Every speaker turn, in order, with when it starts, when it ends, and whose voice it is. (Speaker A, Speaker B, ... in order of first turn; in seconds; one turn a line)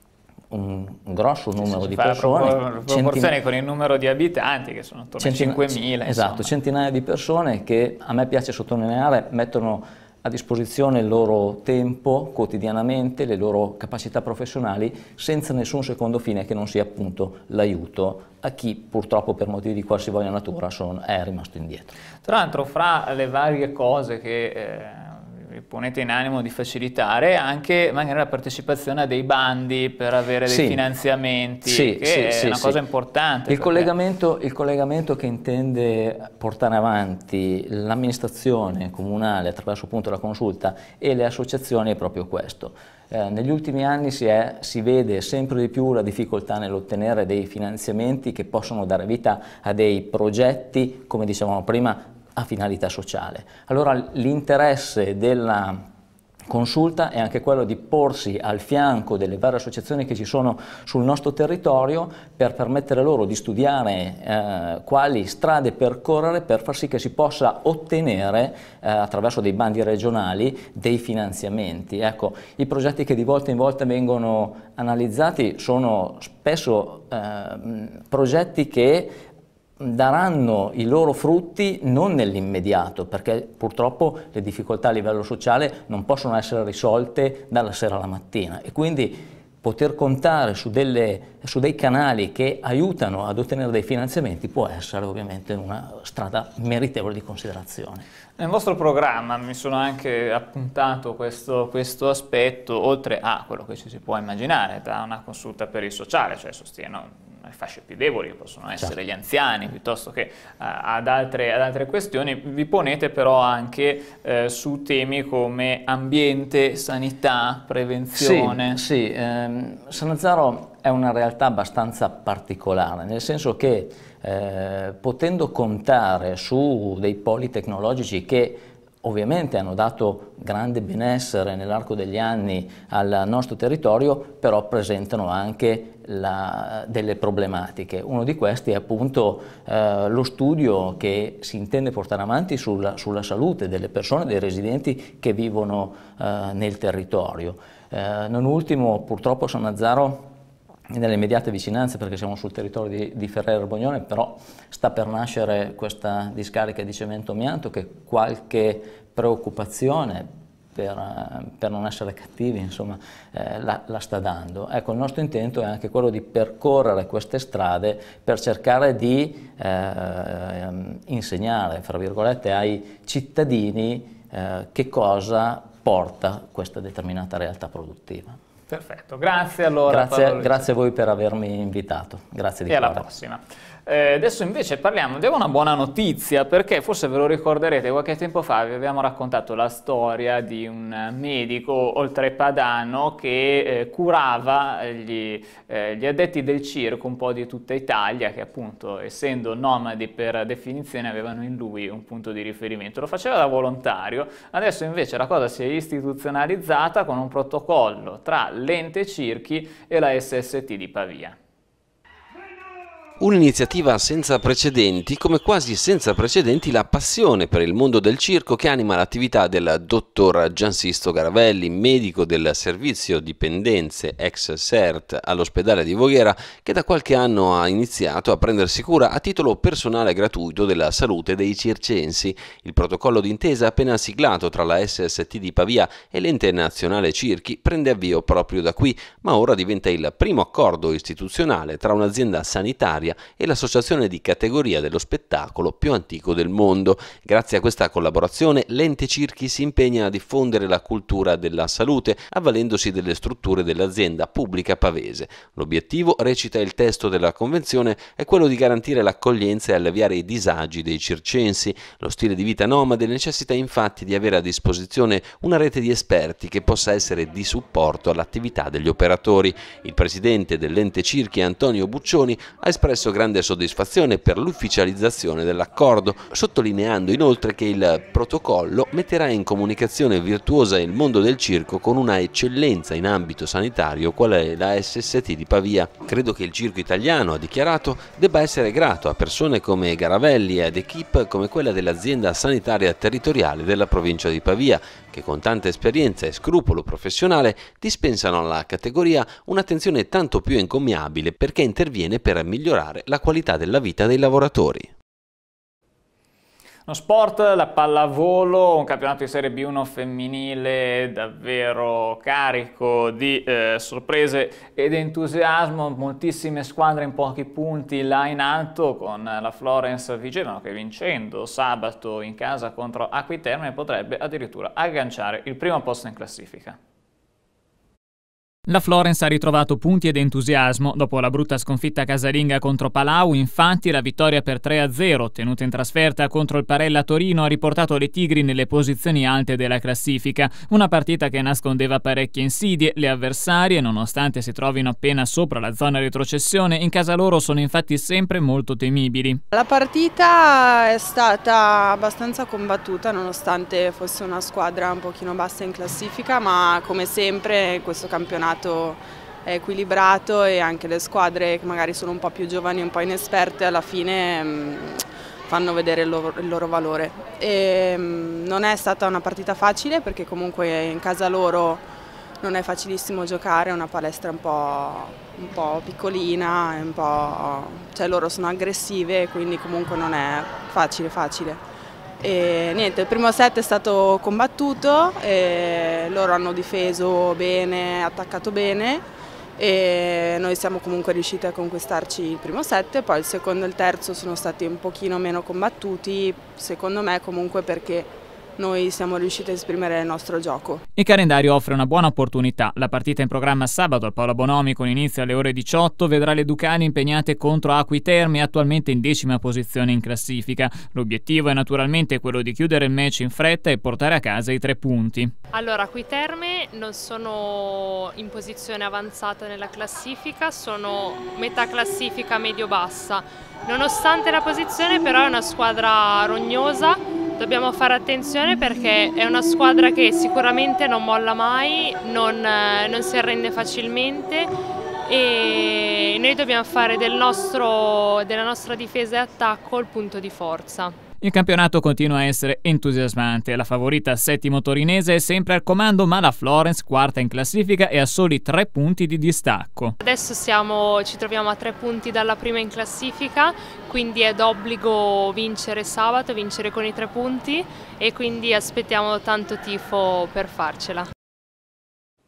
Speaker A: 0.5-3.3
Speaker B: 1.6-6.5
Speaker A: 5.2-21.9
Speaker B: 22.2-33.9
Speaker A: 30.4-30.8
Speaker A: 31.6-32.8
Speaker A: 33.5-55.8
Speaker A: 56.5-79.2
Speaker A: 79.8-98.0
Speaker B: 98.4-118.8
Speaker A: 118.1-150.3
Speaker A: 150.9-178.4
Speaker B: 178.7-180.7
Speaker A: 179.9-183.1
Speaker B: 182.7-211.4
Speaker C: 213.2-304.9
Speaker B: 306.9-326.8
Speaker B: 328.7-349.4
Speaker D: 349.5-371.8
Speaker D: 372.4-381.6
Speaker D: 382.2-389.0
Speaker D: 389.6-400.8
Speaker B: 401.0-415.3
Speaker E: 415.5-434.5
Speaker E: 435.0-440.9
Speaker B: 441.2-449.9
Speaker E: 450.0-461.1